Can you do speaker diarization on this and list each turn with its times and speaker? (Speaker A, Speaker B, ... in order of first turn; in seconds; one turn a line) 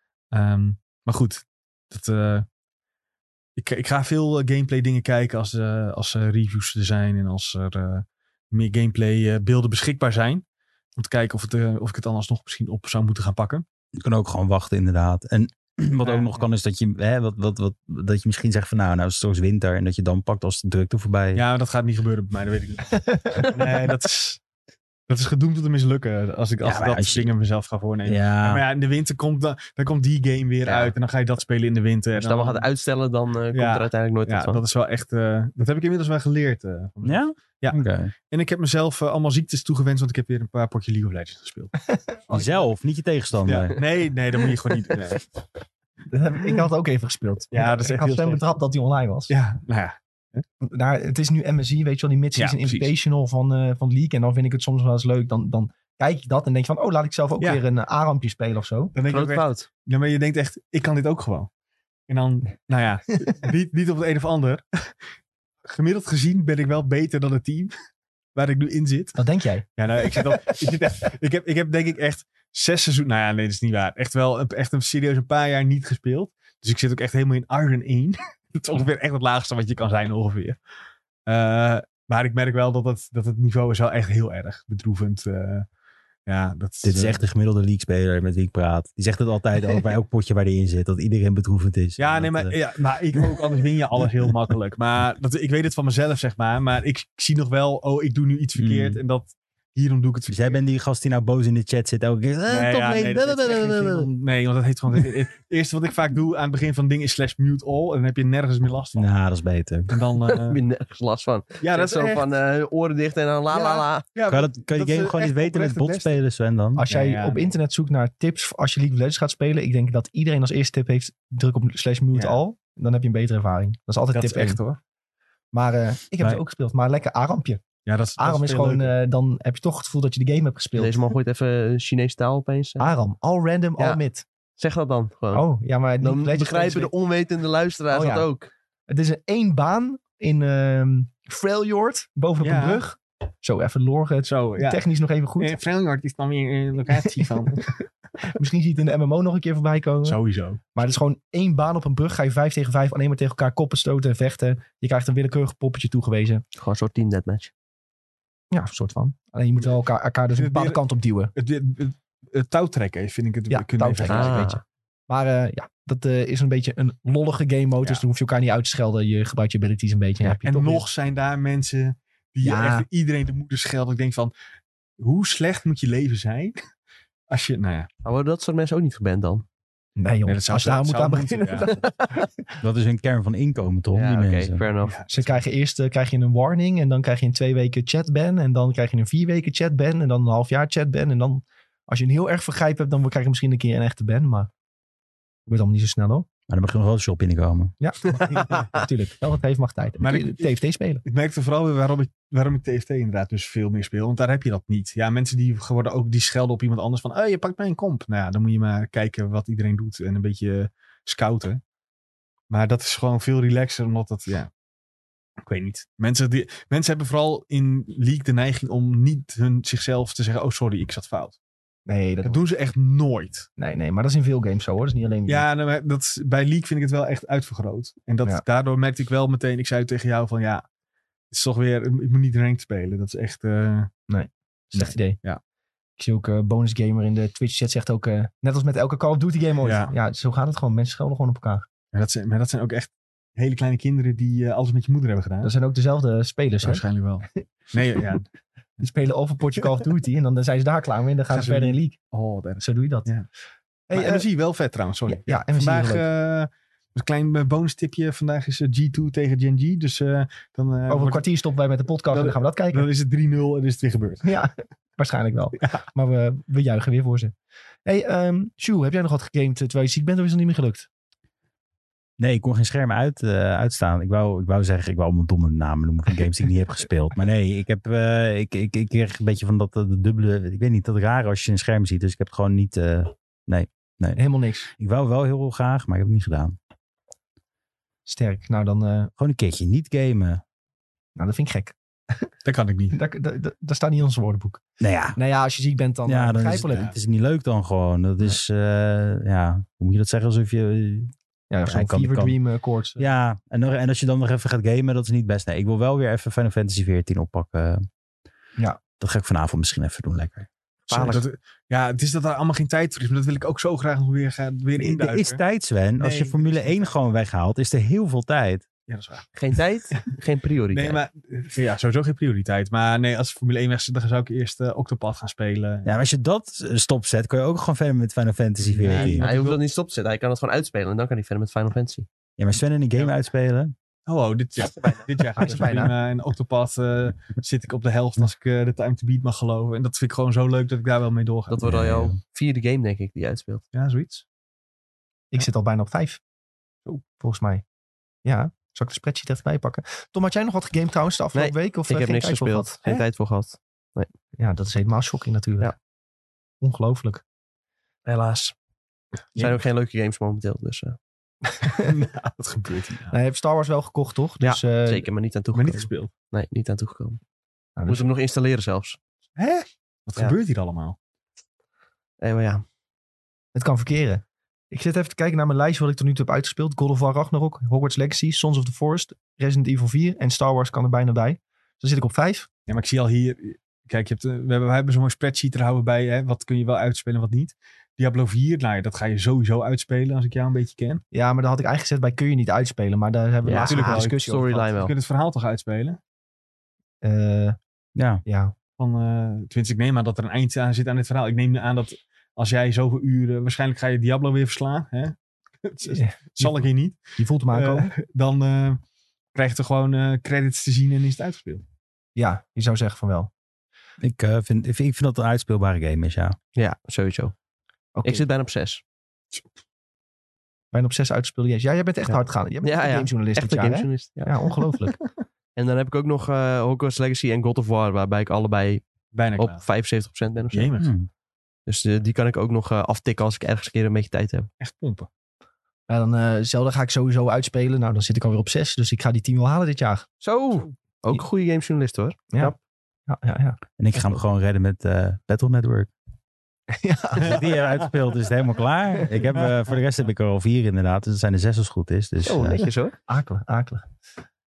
Speaker A: 0.3-2.5
Speaker A: 3.6-10.4
Speaker A: 11.0-13.7
Speaker B: 14.0-21.4
Speaker A: 16.0-16.5
Speaker A: 21.4-24.4
Speaker A: 25.1-32.7
Speaker B: 26.6-27.3
Speaker B: 28.1-28.6
Speaker C: 30.6-30.9
Speaker C: 32.2-34.6
Speaker A: 33.5-41.8
Speaker B: 37.0-38.1
Speaker B: 42.3-43.8
Speaker A: 43.5-45.3
Speaker D: 46.1-49.3
Speaker A: 47.5-48.4
Speaker A: 49.3-50.4
Speaker D: 50.6-58.9
Speaker A: 52.4-52.9
Speaker A: 58.9-61.5
Speaker C: 59.1-59.7
Speaker A: 62.1-64.9
Speaker A: 65.7-67.7
Speaker A: 68.3-69.2
Speaker D: 69.2-70.3
Speaker A: 69.8-80.6
Speaker A: 81.3-85.7
Speaker A: 86.3-87.2
Speaker B: 86.8-92.5
Speaker A: 92.0-100.6
Speaker B: 98.6-99.0
Speaker B: 100.3-104.1
Speaker A: 102.5-109.1
Speaker B: 109.0-110.1
Speaker A: 109.9-110.6
Speaker C: 110.3-114.0
Speaker A: 111.6-112.2
Speaker A: 113.5-116.2
Speaker B: 114.3-116.8
Speaker D: 116.8-124.6
Speaker A: 116.9-117.5
Speaker A: 122.1-122.4
Speaker A: 124.1-124.8
Speaker D: 125.5-127.6
Speaker A: 127.8-128.9
Speaker D: 128.2-131.0
Speaker C: 130.8-132.9
Speaker D: 132.8-134.2
Speaker C: 134.6-135.4
Speaker D: 135.3-136.9
Speaker C: 136.0-138.5
Speaker D: 137.9-138.3
Speaker D: 138.9-145.6
Speaker A: 142.4-142.8
Speaker A: 144.3-144.8
Speaker A: 145.4-147.7
Speaker D: 147.2-147.7
Speaker D: 148.2-150.2
Speaker A: 150.0-150.6
Speaker D: 150.7-156.4
Speaker C: 156.6-157.5
Speaker D: 158.5-161.3
Speaker A: 160.4-160.8
Speaker A: 161.3-164.5
Speaker D: 163.5-170.9
Speaker C: 164.1-164.6
Speaker A: 170.4-174.3
Speaker D: 172.4-172.9
Speaker A: 175.0-176.6
Speaker A: 177.3-177.9
Speaker C: 178.0-179.4
Speaker D: 180.0-182.3
Speaker A: 180.3-181.8
Speaker B: 182.6-184.7
Speaker C: 183.9-185.0
Speaker A: 184.8-185.4
Speaker D: 185.1-194.5
Speaker D: 195.5-196.3
Speaker B: 196.5-197.7
Speaker D: 197.8-201.0
Speaker A: 198.4-198.7
Speaker A: 200.0-200.5
Speaker A: 201.1-211.6
Speaker A: 212.5-214.5
Speaker A: 215.4-221.4
Speaker D: 221.9-222.4
Speaker A: 222.2-223.5
Speaker D: 223.6-225.5
Speaker A: 225.3-230.7
Speaker A: 231.3-233.9
Speaker D: 234.1-235.2
Speaker A: 234.7-235.4
Speaker D: 236.0-241.7
Speaker A: 239.6-239.9
Speaker A: 241.9-245.5
Speaker D: 245.4-246.8
Speaker A: 246.6-248.3
Speaker D: 248.8-252.0
Speaker A: 251.3-253.3
Speaker D: 252.6-253.1
Speaker D: 253.9-254.2
Speaker A: 253.9-261.2
Speaker D: 255.1-256.1
Speaker D: 260.9-262.9
Speaker A: 262.1-264.3
Speaker D: 264.2-267.3
Speaker D: 267.9-270.9
Speaker B: 272.2-284.2
Speaker D: 284.2-284.7
Speaker B: 284.7-286.6
Speaker D: 288.1-289.1
Speaker B: 289.2-290.4
Speaker D: 291.2-292.3
Speaker A: 292.4-293.0
Speaker D: 292.9-294.6
Speaker B: 294.8-295.2
Speaker D: 295.2-296.9
Speaker B: 296.1-301.1
Speaker A: 296.7-296.9
Speaker D: 301.5-303.0
Speaker B: 301.7-302.4
Speaker B: 303.0-307.9
Speaker B: 309.0-310.5
Speaker C: 310.9-311.2
Speaker A: 310.9-315.4
Speaker B: 314.8-318.6
Speaker A: 316.0-316.9
Speaker A: 318.9-319.3
Speaker C: 319.4-321.0
Speaker A: 320.7-325.9
Speaker B: 325.9-329.3
Speaker A: 328.6-329.6
Speaker C: 328.9-332.1
Speaker B: 332.4-333.7
Speaker A: 334.1-341.6
Speaker D: 335.4-335.9
Speaker C: 341.5-343.6
Speaker B: 341.6-342.2
Speaker A: 343.7-344.2
Speaker D: 345.3-346.2
Speaker D: 347.2-347.6
Speaker D: 348.2-353.0
Speaker C: 351.4-354.1
Speaker D: 354.4-355.7
Speaker D: 356.6-357.2
Speaker C: 358.1-358.6
Speaker C: 359.4-361.0
Speaker A: 361.8-363.1
Speaker D: 363.1-365.1
Speaker C: 364.4-367.2
Speaker A: 365.5-366.1
Speaker D: 367.8-368.1
Speaker C: 367.9-369.0
Speaker A: 369.4-371.0
Speaker C: 372.2-372.6
Speaker D: 373.6-382.5
Speaker A: 382.7-391.0
Speaker D: 391.1-394.7
Speaker C: 393.4-394.9
Speaker A: 393.6-394.2
Speaker A: 394.8-396.0
Speaker D: 397.0-397.6
Speaker B: 397.9-398.2
Speaker D: 398.2-398.5
Speaker A: 398.8-408.8
Speaker D: 405.9-406.6
Speaker D: 407.2-407.9
Speaker A: 409.3-411.6
Speaker D: 412.2-413.3
Speaker B: 414.0-416.4
Speaker C: 416.6-417.3
Speaker D: 418.0-418.2
Speaker C: 418.0-418.8
Speaker D: 420.7-424.9
Speaker C: 422.1-424.3
Speaker C: 425.6-428.8
Speaker A: 429.1-429.6
Speaker C: 429.4-430.7
Speaker A: 430.5-430.9
Speaker B: 430.8-431.1
Speaker C: 431.7-434.5
Speaker A: 434.6-435.1
Speaker D: 435.9-440.1
Speaker C: 440.2-442.6
Speaker D: 443.1-443.6
Speaker B: 443.8-445.9
Speaker D: 446.7-447.5
Speaker B: 447.2-452.7
Speaker C: 452.2-453.0
Speaker D: 453.1-453.9